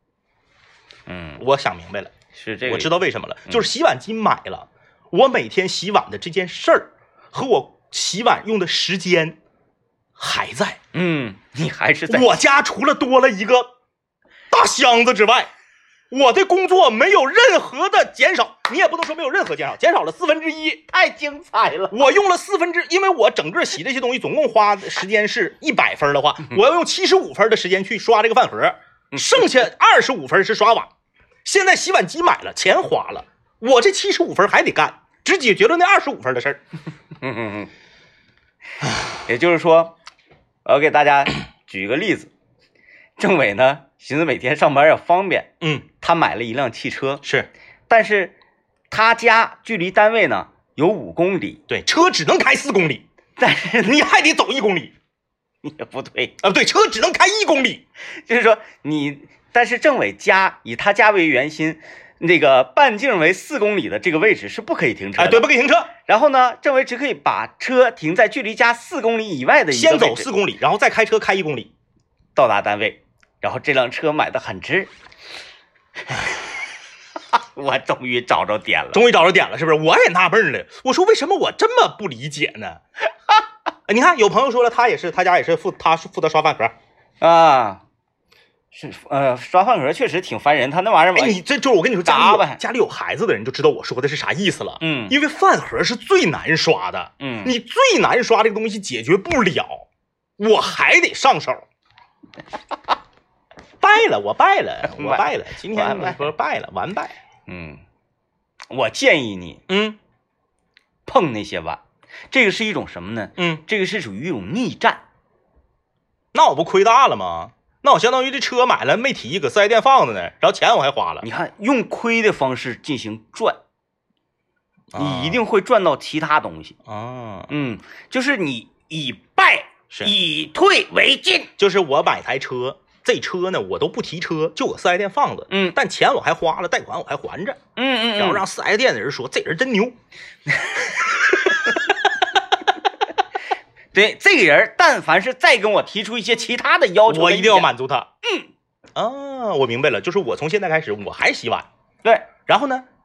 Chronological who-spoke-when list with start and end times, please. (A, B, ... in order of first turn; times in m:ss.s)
0:01.1-0:01.4 A
0:01.4-0:02.1 B
0:02.3-0:02.9 A
0:02.7-0:09.4 B
0:10.2-0:10.8 B
0:10.9-0:12.4 A
0:12.1-0:13.7 B
0:14.5-0:15.5 B
0:16.1-0:20.8 B
0:20.9-0:22.1 A
0:21.9-0:30.9 B
0:29.1-0:29.5 A
0:31.4-0:36.6 B
0:37.2-0:37.7 A
0:39.1-0:40.0 A
0:40.6-0:42.3 A
0:43.2-0:45.5 A
0:45.6-0:45.9 B
0:46.0-0:47.2 A
0:47.2-0:47.5 B
0:47.9-0:48.3 A
0:48.9-0:51.6 A
0:51.7-0:53.0 B
0:53.4-0:54.0 A
0:53.8-0:54.9 B
0:55.6-0:56.4 A
0:56.4-0:57.8 B
0:58.2-1:05.5 A
1:05.2-1:05.9 B
1:06.1-1:10.3 A
1:09.7-1:11.7 B
1:12.4-1:14.9 A
1:16.1-1:16.6 A
1:17.3-1:19.0 A
1:18.9-1:22.8 B
1:23.9-1:26.8 B
1:27.2-1:27.8 A
1:28.7-1:31.4 A
1:31.2-1:39.9 B
1:32.0-1:32.6 A
1:34.8-1:35.2 A
1:37.2-1:37.5 A
1:40.4-1:41.7 B
1:43.8-1:47.2 B
1:44.8-1:46.3 A
1:47.5-1:47.8 A
1:48.7-1:49.6 A
1:49.7-1:50.0 B
1:51.1-1:55.0 A
1:56.3-2:01.3 B
2:01.2-2:03.6 A
2:04.9-2:05.4 B
2:05.0-2:06.8 A
2:06.9-2:07.5 B
2:07.5-2:11.5 A
2:11.6-2:17.6 B
2:15.5-2:15.8 A
2:17.8-2:18.4 A
2:18.2-2:20.0 B
2:20.5-2:21.8 A
2:23.9-2:27.7 A
2:27.1-2:28.1 B
2:29.0-2:31.7 B
2:32.0-2:32.3 A
2:32.5-2:32.9 B